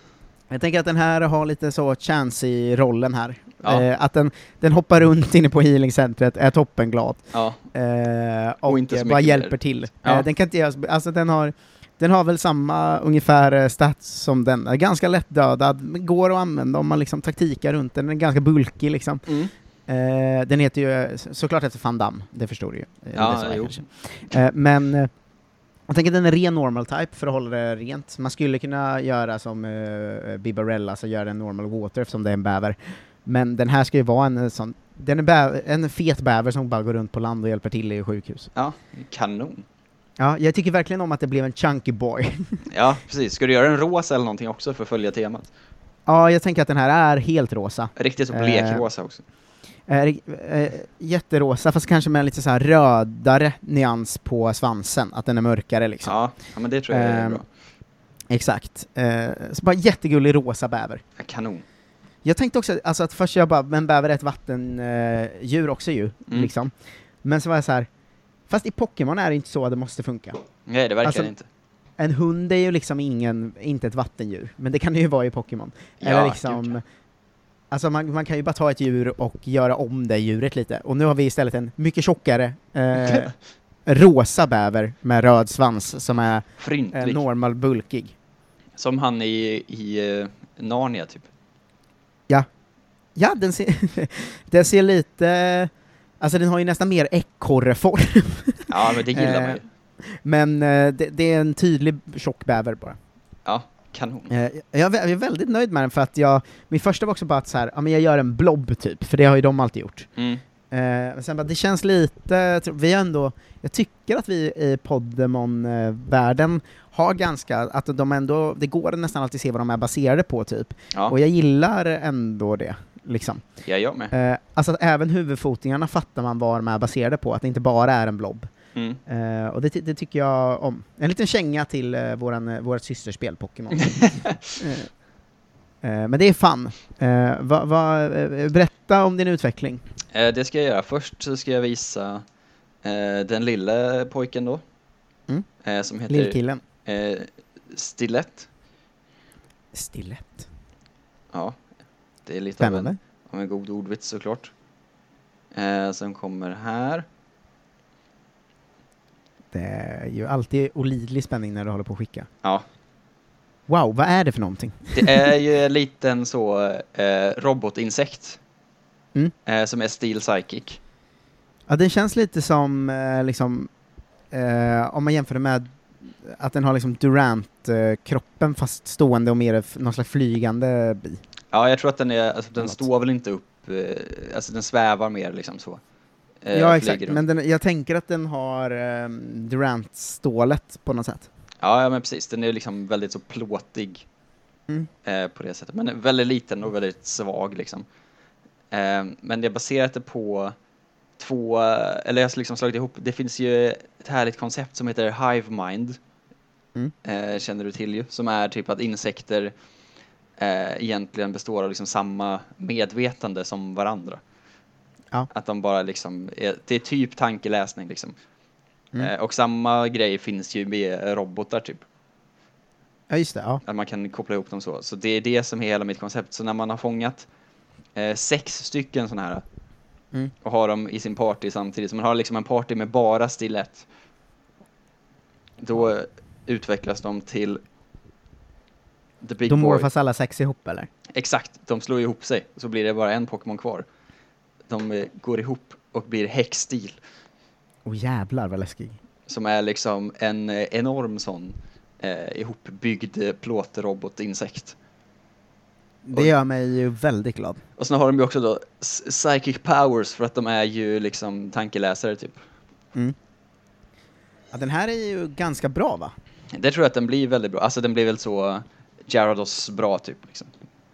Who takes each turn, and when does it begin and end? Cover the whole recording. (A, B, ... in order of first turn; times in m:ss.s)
0:00.5-0:19.3 A
0:07.3-0:07.6 B
0:08.7-0:10.3 B
0:19.3-0:19.5 B
0:19.9-0:25.1 A
0:23.1-0:23.8 B
0:25.9-0:38.5 A
0:38.6-0:39.6 B
0:40.2-0:42.7 A
0:42.7-0:45.5 B
0:46.1-0:48.9 A
0:48.0-0:49.2 B
0:49.9-0:56.2 A
0:56.0-0:57.4 B
0:56.9-0:57.4 A
0:58.3-1:01.0 A
1:01.2-1:01.6 B
1:02.2-1:07.9 A
1:08.5-1:10.4 A
1:10.7-1:11.5 B
1:11.0-1:11.3 A
1:12.0-1:16.8 A
1:16.0-1:16.8 B
1:17.7-1:23.3 A
1:23.9-1:28.2 A
1:26.6-1:27.2 B
1:28.8-1:31.3 B
1:33.2-1:43.0 A
1:38.7-1:39.6 B
1:43.5-1:44.3 B
1:44.3-1:50.1 A
1:50.2-1:50.4 B
1:50.7-2:03.4 A
2:03.6-2:04.1 B
2:04.1-2:08.5 A
2:08.8-2:09.0 B
2:09.1-2:14.0 A
2:13.8-2:14.6 B
2:14.6-2:14.9 A
2:15.8-2:19.8 A
2:20.1-2:22.2 B
2:22.8-2:24.6 B
2:25.6-2:28.5 B
2:26.1-2:26.6 A
2:29.7-2:30.5 A
2:31.3-2:31.6 B
2:32.3-2:34.5 B
2:32.6-2:33.0 A
2:35.5-2:37.0 B
2:39.5-2:42.3 A
2:43.7-2:45.3 A
2:44.9-2:48.4 B
2:49.5-2:50.8 B
2:51.7-2:53.7 A
2:54.3-3:01.2 A
3:01.5-3:05.8 B
3:06.4-3:07.2 B
3:06.5-3:11.3 A
3:11.6-3:14.1 B
3:15.0-3:17.8 B
3:18.7-3:20.6 B
3:21.2-3:26.0 B
3:27.0-3:29.5 B
3:30.4-3:34.2 B
3:35.3-3:38.2 B
3:39.0-3:41.8 B
3:43.1-3:43.6 A
3:43.6-3:47.3 B
3:48.0-3:49.4 B
3:50.4-3:53.9 B
3:55.6-3:57.6 B
3:59.2-3:59.9 B
3:59.5-4:00.9 A
4:01.2-4:03.8 B
4:04.7-4:07.0 B
4:07.8-4:09.0 A
4:09.3-4:14.8 B
4:16.0-4:17.6 A
4:17.8-4:22.4 B
4:24.5-4:26.1 A
4:26.5-4:30.5 B